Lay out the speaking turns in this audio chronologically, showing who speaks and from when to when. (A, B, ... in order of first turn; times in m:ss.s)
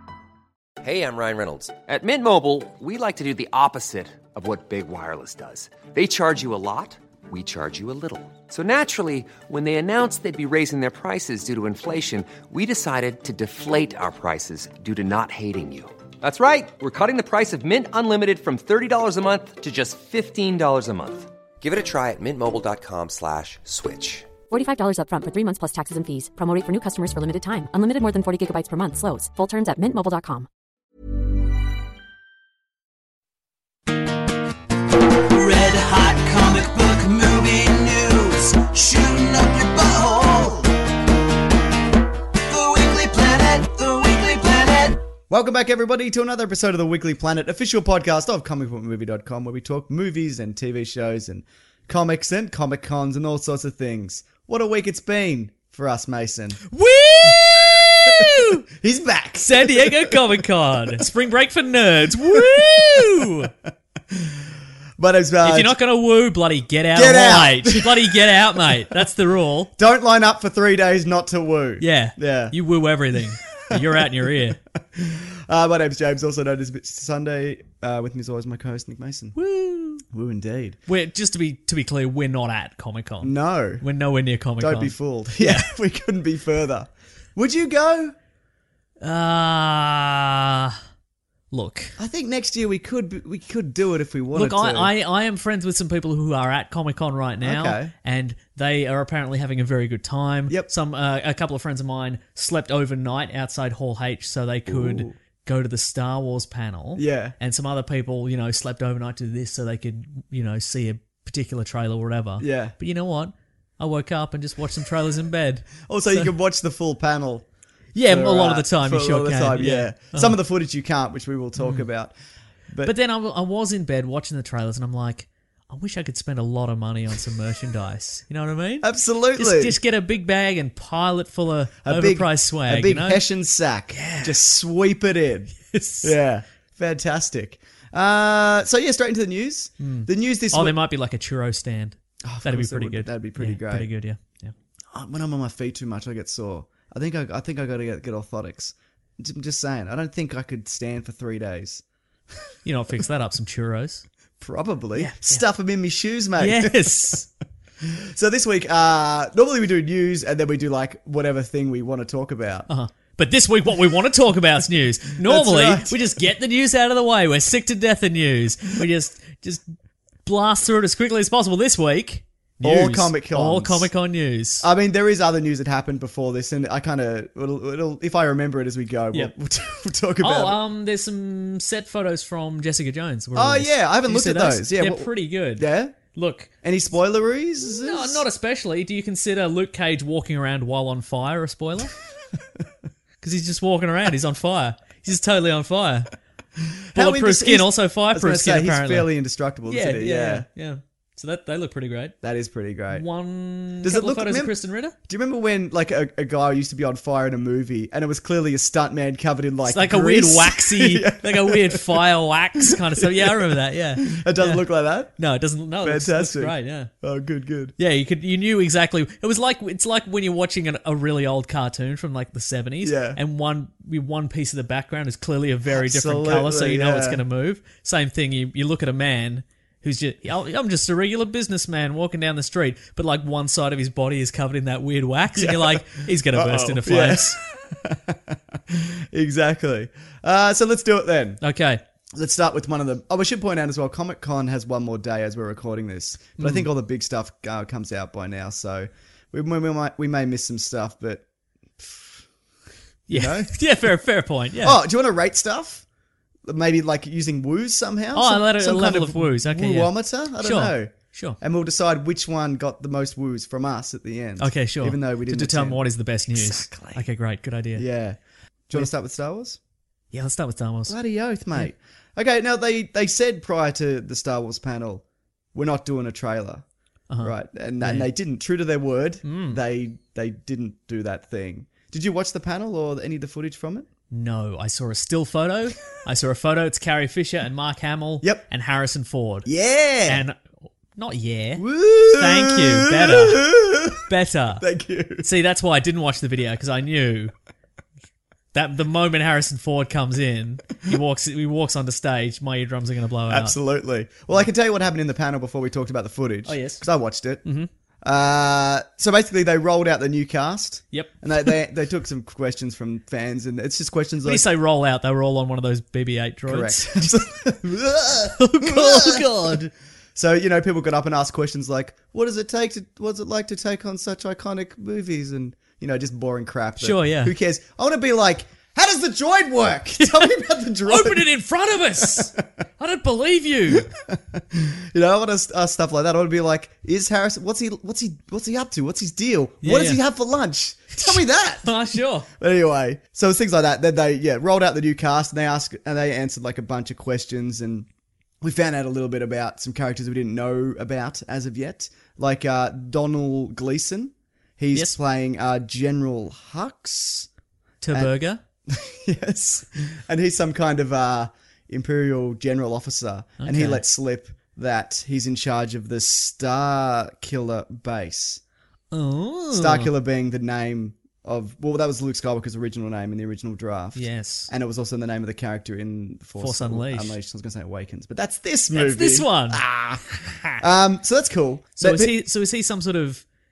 0:00.8-0:24.3 A
0:24.5-0:30.5 B
0:35.3-0:40.7 C
0:42.5-0:45.0 C
0:45.3-0:56.6 D
0:56.7-0:58.6 E
0:57.2-1:00.4 D
0:59.4-1:03.5 E
1:02.3-1:03.3 D
1:04.1-1:04.4 D
1:05.0-1:05.8 D
1:05.4-1:09.7 E
1:06.9-1:08.9 D
1:09.8-1:12.6 D
1:11.8-1:14.6 E
1:13.7-1:14.3 D
1:14.9-1:19.4 D
1:19.4-1:20.0 E
1:20.1-1:20.8 D
1:20.9-1:25.7 E
1:23.2-1:23.8 D
1:24.6-1:28.2 D
1:29.0-1:30.8 E
1:31.5-1:32.0 E
1:32.0-1:34.9 D
1:34.3-1:56.3 E
1:37.4-1:37.9 D
1:44.7-1:45.2 D
1:47.0-1:47.4 D
1:52.4-1:52.8 D
1:55.9-1:57.4 D
1:58.0-2:00.4 E
1:58.0-2:02.1 D
2:01.6-2:01.8 E
2:02.8-2:13.2 E
2:08.8-2:09.8 D
2:11.8-2:20.8 D
2:13.9-2:14.4 E
2:15.6-2:16.2 E
2:19.8-2:24.5 E
2:22.2-2:23.9 D
2:24.9-2:31.8 D
2:32.6-2:34.0 E
2:34.4-2:37.3 D
2:35.0-2:35.4 E
2:36.4-2:37.3 E
2:37.8-2:42.7 D
2:42.7-2:49.7 E
2:45.2-2:46.0 D
2:50.2-2:54.7 E
2:52.6-2:53.9 D
2:54.6-3:00.6 D
3:00.2-3:06.5 E
3:03.4-3:06.0 D
3:06.6-3:08.2 D
3:07.8-3:12.0 E
3:13.2-3:16.1 E
3:16.9-3:20.5 D
3:17.0-3:19.1 E
3:19.7-3:22.2 E
3:22.2-3:23.1 D
3:22.9-3:25.0 E
3:23.8-3:35.2 D
3:29.7-3:34.6 E
3:35.2-3:36.9 E
3:35.8-3:37.8 D
3:37.8-3:57.4 E
3:42.8-3:43.2 D
3:45.7-3:47.2 D
3:55.4-4:01.4 D
4:01.4-4:01.8 E
4:02.2-4:11.2 D
4:06.4-4:06.7 E
4:11.8-4:12.3 D
4:13.1-4:13.6 D
4:13.1-4:14.8 E
4:14.6-4:15.8 D
4:16.4-4:27.1 D
4:18.2-4:21.4 E
4:24.4-4:27.8 E
4:27.8-4:28.2 D
4:28.7-4:29.6 D
4:30.1-4:31.0 E
4:30.9-4:36.6 D
4:37.1-4:38.1 E
4:37.2-4:43.9 D
4:39.2-4:39.6 E
4:44.1-4:49.5 E
4:49.5-4:50.2 D
4:50.1-4:50.4 E
4:51.0-4:53.5 E
4:51.6-4:54.1 D
4:54.1-4:54.6 E
4:54.6-4:55.3 D
4:55.2-4:57.3 E
4:58.5-5:03.6 E
5:03.3-5:07.4 D
5:06.4-5:06.8 E
5:07.4-5:07.7 E
5:08.0-5:14.5 D
5:10.9-5:11.5 E
5:14.2-5:17.1 E
5:16.5-5:31.3 D
5:18.3-5:19.7 E
5:26.8-5:27.3 E
5:30.0-5:33.9 E
5:32.0-5:32.4 D
5:33.7-5:41.8 D
5:39.6-5:40.0 E
5:41.0-5:42.3 E
5:42.3-5:47.9 D
5:48.4-5:57.3 D
5:54.7-5:55.0 E
5:57.8-5:58.4 E
5:58.7-6:08.4 D
6:03.4-6:03.8 E
6:08.9-6:09.9 E
6:09.5-6:20.0 D
6:14.0-6:14.5 E
6:16.4-6:17.2 E
6:18.7-6:20.6 E
6:20.6-6:22.2 D
6:21.8-6:23.2 E